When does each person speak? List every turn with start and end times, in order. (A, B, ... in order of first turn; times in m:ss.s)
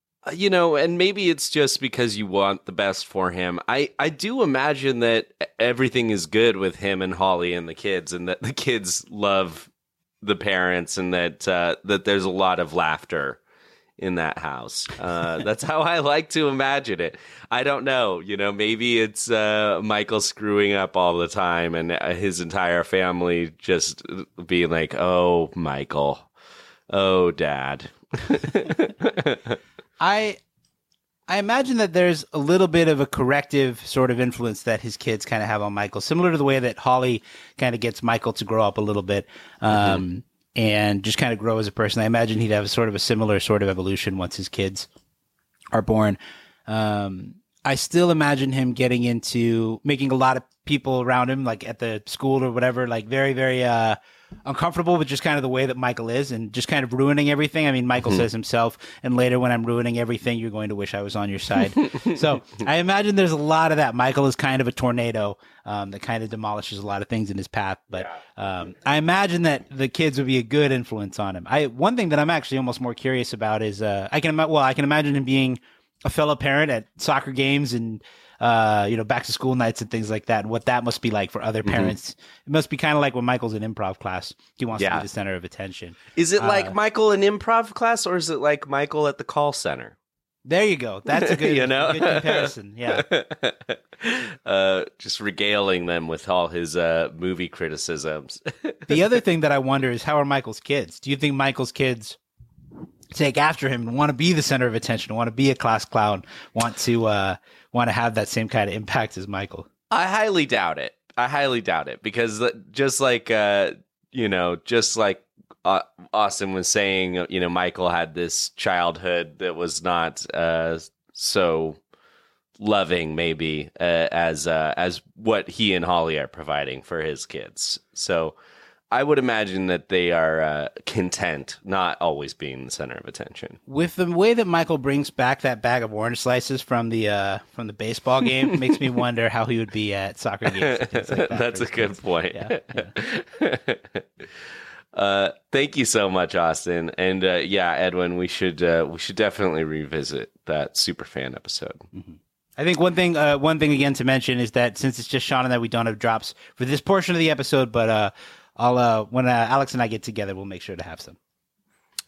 0:00.2-0:09.7 A
0:10.2-0:13.4 A
0:14.0-0:26.3 A
0:26.9-0:29.6 A
0:30.0-0:30.4 B
0:31.3-0:44.9 B
0:39.7-0:40.0 A
0:45.7-1:26.7 B
1:21.7-1:21.9 A
1:24.8-1:25.0 A
1:26.2-1:30.0 A
1:30.5-1:33.0 B
1:31.1-1:39.0 A
1:38.9-1:42.2 B
1:43.1-1:49.7 B
1:49.9-2:01.8 A
2:02.6-2:08.4 A
2:08.9-2:13.6 A
2:13.7-2:22.9 B
2:20.5-2:24.4 A
2:24.9-2:31.8 A
2:31.9-2:41.2 B